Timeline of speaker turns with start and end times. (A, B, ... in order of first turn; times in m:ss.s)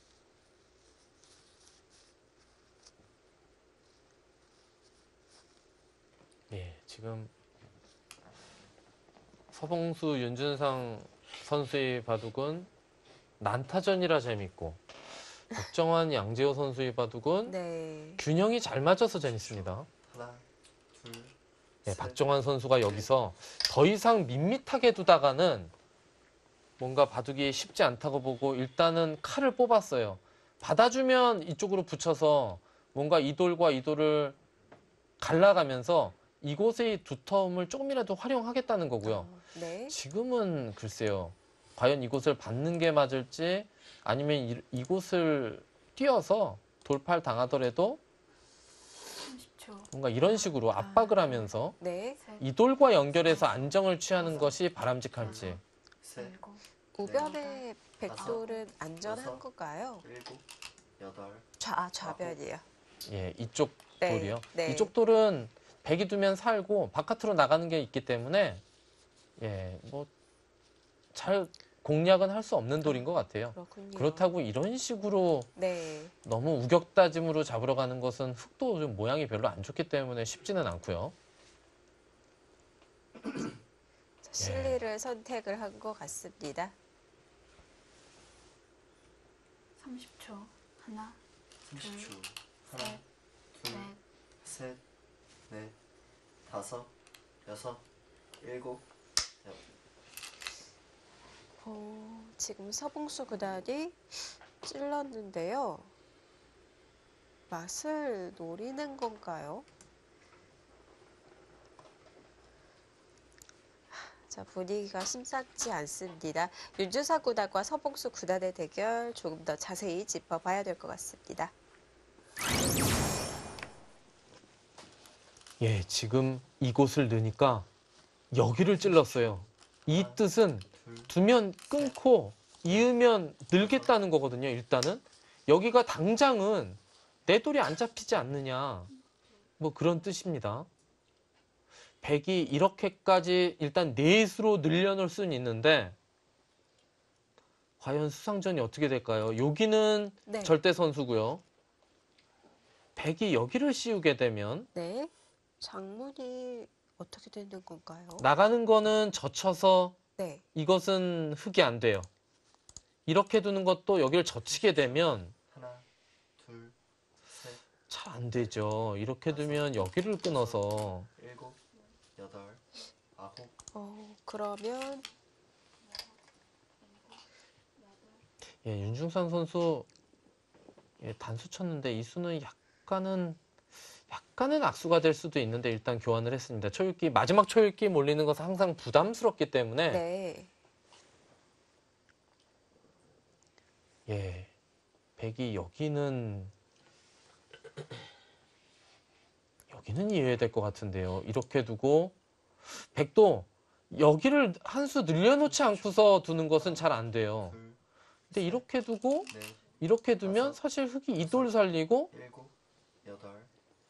0:06.5-0:07.3 A
0:09.5-0:12.7 A
0:13.4-0:14.8 A
0:15.5-0:17.6 A
0:17.4-0:18.2 B
0:18.2-0:19.9 A
0:19.2-0:23.1 C
0:21.8-0:25.7 A
0:26.8-0:34.4 A
0:35.2-0:39.3 A
0:39.0-0:40.0 B
0:39.9-0:48.0 A
0:49.1-0:49.9 D
0:49.9-0:51.7 A
0:50.8-0:52.2 B
0:51.0-0:51.4 D
0:52.2-0:54.6 D
0:52.4-0:55.6 A
0:54.2-0:54.6 C
0:55.2-0:55.6 D
0:55.2-0:56.4 C
0:56.2-0:57.6 D
0:56.9-1:00.0 B
0:57.0-0:57.4 C
0:58.0-0:58.5 C
0:58.2-0:58.6 D
0:59.0-0:59.4 C
1:00.0-1:00.5 C
1:01.0-1:01.5 C
1:01.6-1:02.6 B
1:02.0-1:02.4 C
1:03.0-1:08.6 A
1:04.0-1:04.9 B
1:09.4-1:10.1 A
1:11.1-1:15.5 A
1:12.8-1:14.3 B
1:15.6-1:16.1 B
1:16.2-1:21.1 A
1:24.2-1:26.7 B
1:24.4-1:24.8 A
1:29.8-1:32.1 D
1:31.6-1:34.8 C
1:32.6-1:33.0 D
1:33.6-1:34.0 D
1:35.5-1:35.8 C
1:36.4-1:36.9 C
1:37.4-1:37.8 C
1:38.4-1:38.9 C
1:41.6-1:45.9 B
1:47.5-1:49.6 B
1:53.9-2:01.5 B
2:05.6-2:07.6 A
2:08.3-2:18.9 A
2:08.6-2:12.0 C
2:13.5-2:13.9 C
2:18.9-2:19.5 D
2:19.6-2:20.7 A
2:22.0-2:26.0 A
2:27.8-2:31.4 A
2:30.2-2:30.6 B
2:33.0-2:34.7 A
2:34.7-2:38.3 B
2:38.2-2:40.0 A
2:40.2-2:40.4 B
2:40.5-2:42.1 A
2:43.0-2:45.3 A
2:44.5-2:47.6 C
2:47.9-2:51.1 A
2:49.3-2:51.6 C
2:51.7-2:52.0 D
2:52.1-2:53.6 C
2:53.7-2:55.0 B
2:55.8-2:56.2 D
2:56.8-2:58.2 D
2:58.6-2:59.9 A
3:01.0-3:03.4 A
3:04.1-3:10.0 A
3:09.9-3:10.5 B
3:14.1-3:14.5 A
3:15.2-3:16.5 A
3:19.7-3:22.1 A
3:22.7-3:27.6 A
3:25.4-3:27.8 C
3:28.3-3:28.6 C
3:28.3-3:32.1 A
3:29.3-3:29.7 C
3:30.2-3:30.6 C
3:31.2-3:31.5 C
3:32.1-3:33.5 C